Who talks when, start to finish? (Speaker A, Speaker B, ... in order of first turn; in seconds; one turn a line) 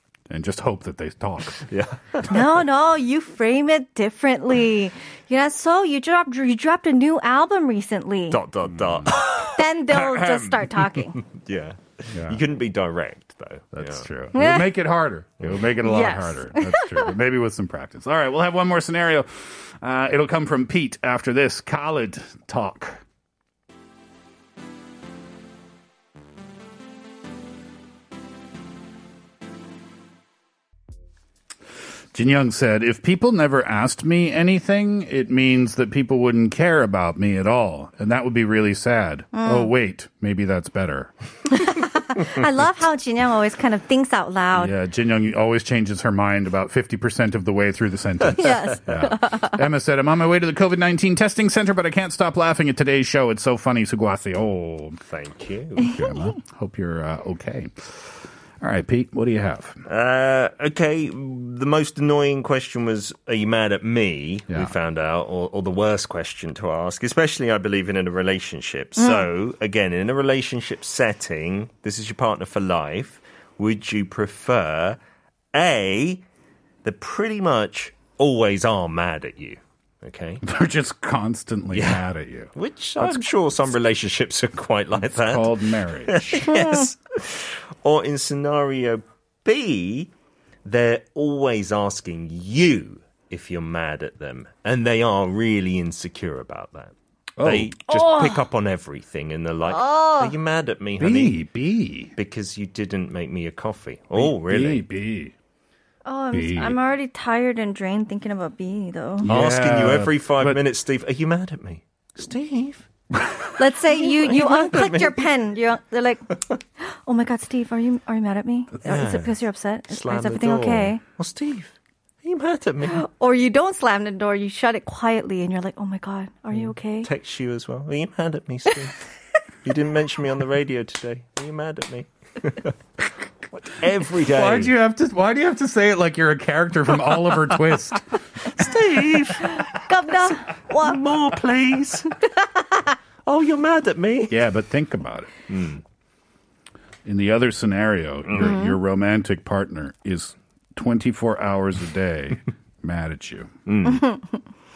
Speaker A: 0.3-1.6
Speaker B: 1.6-2.5
Speaker C: 2.3-8.4
Speaker B: 8.3-14.1
Speaker A: 8.7-9.2
Speaker C: 9.4-11.2
Speaker A: 12.1-12.4
Speaker A: 13.7-23.0
Speaker C: 14.3-14.8
Speaker B: 15.4-15.7
Speaker C: 15.8-17.1
Speaker A: 32.1-41.1
Speaker C: 39.3-39.7
Speaker C: 41.5-44.8
Speaker A: 44.5-55.0
Speaker C: 48.4-49.6
Speaker B: 55.1-56.0
Speaker A: 55.8-58.1
Speaker C: 56.0-56.3
Speaker A: 58.6-59.8
Speaker B: 59.9-75.0
Speaker A: 64.5-64.7
Speaker B: 75.5-76.2
Speaker B: 76.8-80.4
Speaker A: 80.4-83.2
Speaker B: 81.7-82.0
Speaker B: 82.5-90.1
Speaker A: 84.9-86.5
Speaker B: 90.7-101.4
Speaker A: 97.4-97.7
Speaker C: 97.9-98.5
Speaker C: 99.7-100.4
Speaker A: 101.0-102.1
Speaker B: 102.2-104.9
Speaker A: 104.1-105.3
Speaker C: 106.0-109.4
Speaker A: 106.3-106.8
Speaker A: 109.2-110.6
Speaker B: 109.3-112.9
Speaker C: 113.6-116.3
Speaker B: 113.8-115.4
Speaker C: 116.8-121.0
Speaker B: 118.8-119.3
Speaker B: 119.9-123.0
Speaker C: 122.8-127.1
Speaker B: 126.5-129.0
Speaker B: 129.6-132.7
Speaker B: 133.6-134.7
Speaker A: 134.2-139.6
Speaker B: 138.4-139.5
Speaker C: 139.4-141.0
Speaker B: 140.7-142.2
Speaker B: 143.3-144.4
Speaker A: 144.3-145.3
Speaker B: 145.5-145.8
Speaker A: 147.1-153.5
Speaker B: 148.3-148.5
Speaker C: 148.4-148.8
Speaker B: 153.7-154.1